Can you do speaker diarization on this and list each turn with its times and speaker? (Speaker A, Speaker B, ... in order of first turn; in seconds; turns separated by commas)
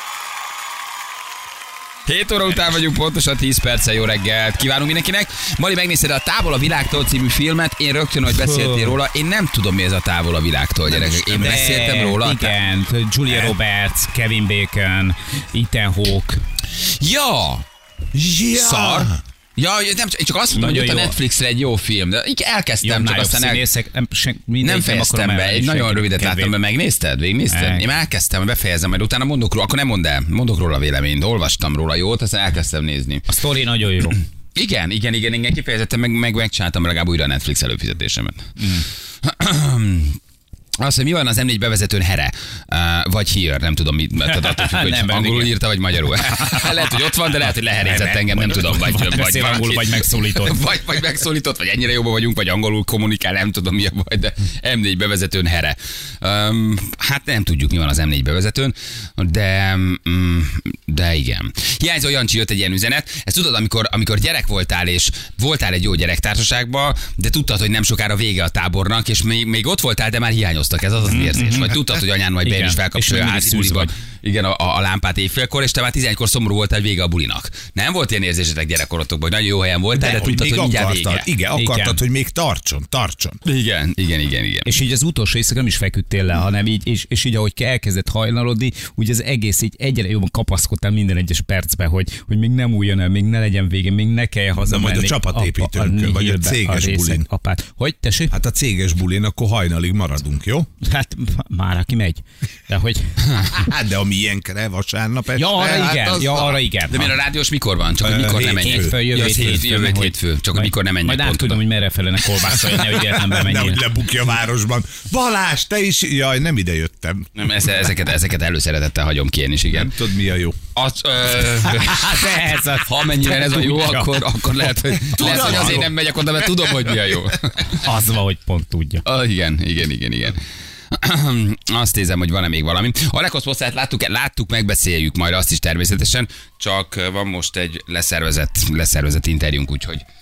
Speaker A: 2.0-12.5, Speaker B: 8.3-9.0, Speaker C: 10.9-12.0, Speaker B: 11.4-16.4, Speaker A: 13.3-13.5, Speaker A: 16.8-17.6, Speaker C: 18.1-19.2, Speaker A: 18.5-23.6, Speaker B: 20.5-21.1, Speaker B: 22.8-26.5, Speaker A: 24.6-33.3, Speaker B: 27.5-27.9, Speaker B: 33.3-34.2, Speaker A: 34.5-38.5, Speaker B: 38.6-38.8, Speaker A: 39.2-40.2, Speaker A: 40.8-81.3, Speaker B: 44.2-45.5, Speaker B: 46.1-46.9, Speaker B: 47.8-50.7, Speaker B: 71.0-71.8, Speaker B: 72.4-73.9, Speaker C: 80.0-83.4, Speaker B: 81.5-82.0, Speaker A: 83.4-84.7, Speaker B: 84.6-98.3, Speaker C: 94.7-97.2, Speaker C: 98.3-100.7, Speaker B: 100.8-103.1, Speaker C: 103.5-106.5, Speaker B: 105.3-107.1, Speaker A: 106.1-111.6, Speaker C: 108.0-109.0, Speaker B: 108.6-113.8, Speaker C: 113.1-117.3, Speaker A: 117.3-119.9, Speaker C: 119.7-120.6, Speaker A: 120.7-127.8, Speaker B: 121.8-124.3, Speaker C: 125.1-125.9, Speaker B: 125.2-125.8, Speaker B: 127.8-129.0, Speaker A: 129.0-130.4, Speaker A: 130.9-140.0